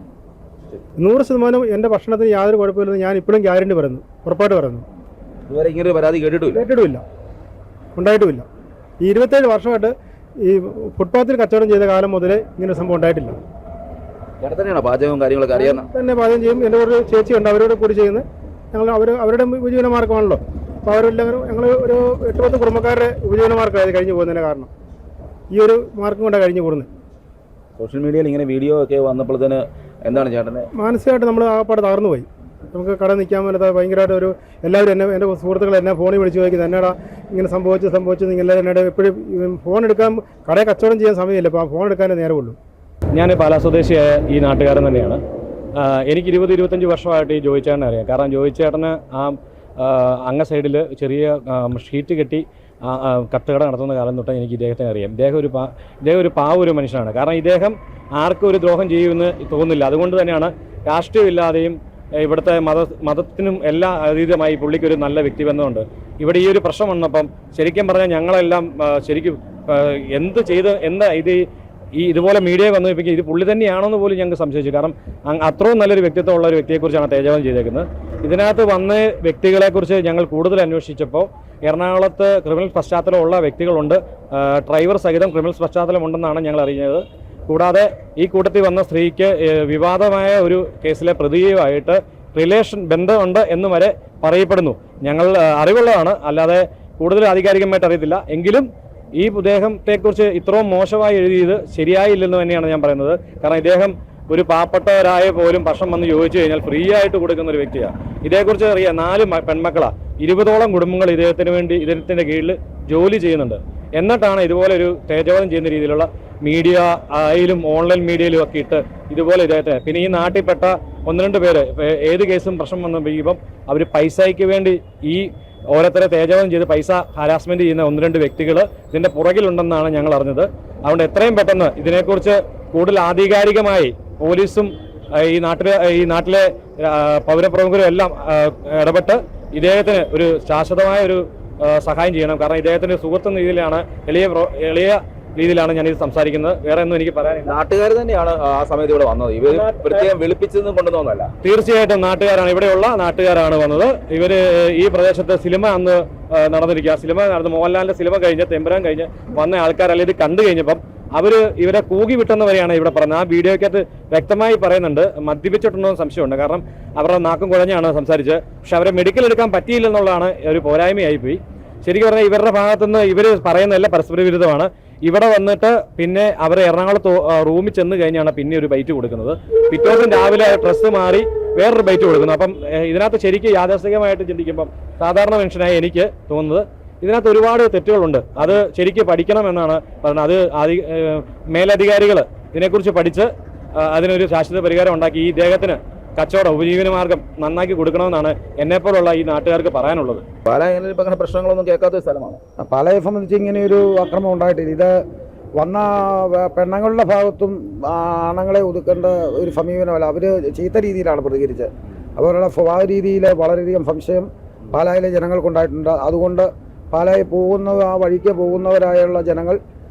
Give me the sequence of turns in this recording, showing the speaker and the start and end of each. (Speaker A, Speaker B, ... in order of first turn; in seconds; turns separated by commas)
Speaker A: 1.0-4.8, Speaker B: 5.5-6.6, Speaker A: 6.5-7.0, Speaker A: 8.0-8.4, Speaker A: 9.0-13.3, Speaker B: 14.4-15.8, Speaker A: 15.5-24.7, Speaker A: 25.5-26.9, Speaker B: 27.8-30.7, Speaker A: 30.8-42.5, Speaker C: 43.1-45.2, Speaker C: 45.8-71.4, Speaker C: 72.0-147.6, Speaker B: 147.5-151.3, Speaker C: 149.5-150.1, Speaker C: 151.4-200.2, Speaker B: 200.4-202.4, Speaker D: 202.6-205.0, Speaker D: 205.6-219.6